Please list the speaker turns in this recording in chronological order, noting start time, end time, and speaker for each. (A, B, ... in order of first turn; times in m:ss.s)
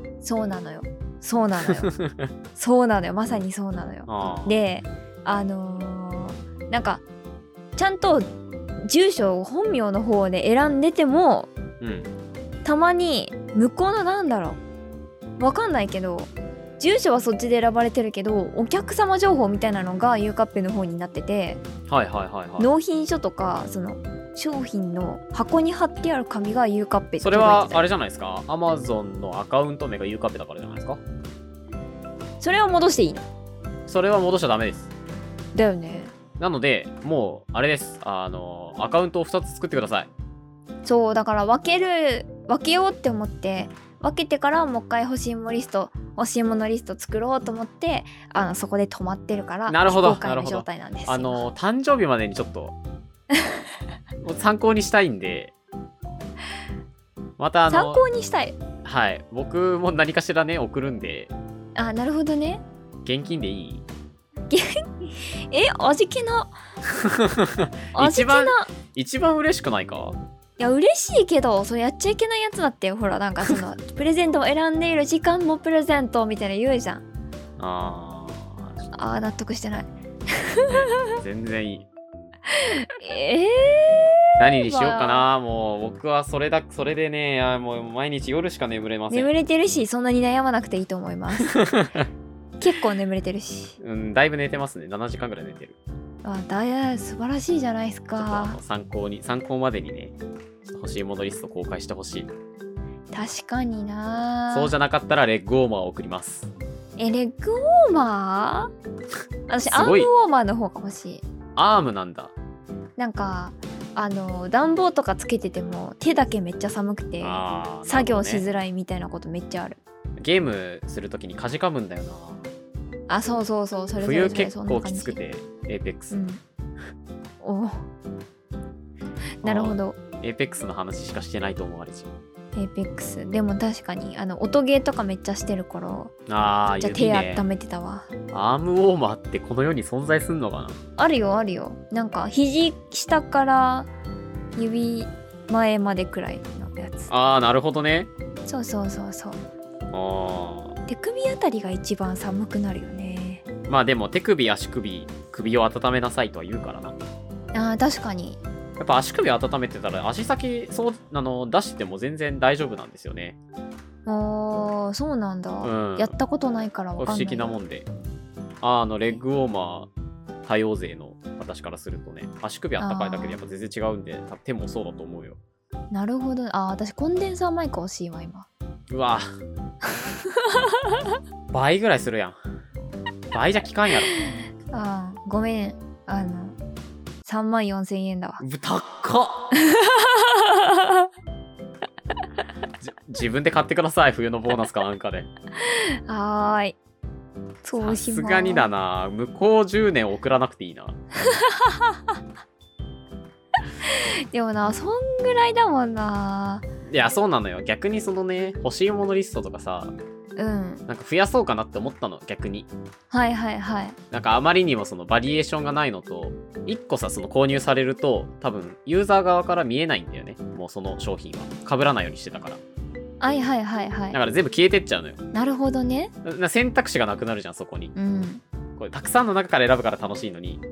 0:00.2-0:01.9 A
0:01.7-0:02.3 B
0:02.6-0:07.0 A
0:04.1-0:04.6 B
0:07.8-0:11.5 A
0:11.8-0:12.1 B
0:12.6-0:14.6 A
0:15.4-0:21.6 A
0:21.9-0:22.7 B
0:22.6-0:27.9 A
0:27.2-0:31.0 B
0:32.4-0:33.2 A
0:33.9-0:34.9 B
0:35.6-0:36.1 A
0:36.4-0:40.1 B
0:40.8-0:51.5 A
0:49.7-0:52.7 B
0:54.2-0:55.5 B
0:57.4-0:58.0 B
0:57.7-0:58.6 A
0:58.8-1:01.3 B
1:01.8-1:02.6 A
1:03.0-1:03.8 B
1:04.5-1:06.6 A
1:07.0-1:10.2 B
1:08.0-1:08.7 A
1:10.6-1:17.0 A
1:17.6-1:18.9 B
1:18.9-1:21.2 A
1:20.6-1:21.9 B
1:22.5-1:25.3 A
1:24.4-1:29.3 B
1:29.1-1:31.5 A
1:31.4-1:32.1 B
1:32.6-1:33.8 A
1:33.8-1:35.8 B
1:36.2-1:38.6 A
1:38.2-1:40.2 B
1:40.7-1:42.3 B
1:43.1-1:44.7 A
1:44.5-1:46.5 B
1:47.0-1:48.7 A
1:49.5-1:51.2 A
1:49.7-1:50.1 B
1:51.6-1:52.3 B
1:53.0-1:59.8 A
1:57.2-1:58.4 B
2:00.2-2:02.4 B
2:03.1-2:05.2 A
2:04.0-2:06.2 B
2:06.1-2:06.4 A
2:07.4-2:07.8 A
2:09.4-2:10.0 A
2:09.4-2:12.1 B
2:12.6-2:16.1 A
2:16.3-2:17.4 B
2:16.8-2:18.1 A
2:18.3-2:20.8 B
2:21.0-2:23.9 A
2:24.6-2:27.1 A
2:27.1-2:28.1 B
2:28.5-2:29.4 A
2:29.9-2:30.8 B
2:30.9-2:33.4 A
2:33.7-2:37.0 B
2:37.5-2:38.4 A
2:38.8-2:43.4 B
2:44.1-2:47.6 A
2:45.6-2:46.1 B
2:47.0-2:47.9 B
2:48.6-2:49.9 B
2:50.4-2:55.4 B
2:52.8-2:53.4 A
2:55.9-2:58.5 A
2:58.9-2:59.3 B
3:01.5-3:02.4 B
3:03.3-3:04.1 B
3:04.7-3:06.6 A
3:07.2-3:08.4 A
3:08.4-3:09.5 B
3:09.6-3:11.1 A
3:12.8-3:15.3 B
3:15.6-3:16.8 A
3:17.6-3:18.7 A
3:17.8-3:21.0 B
3:21.3-3:22.0 A
3:23.9-3:26.7 A
3:26.9-3:30.0 B
3:30.4-3:30.8 A
3:30.9-3:32.7 B
3:33.1-3:34.0 A
3:34.1-3:42.6 B
3:43.2-3:44.2 A
3:44.1-3:45.2 B
3:45.3-3:46.1 A
3:46.2-3:47.9 B
3:48.0-3:48.4 A
3:48.8-3:50.6 B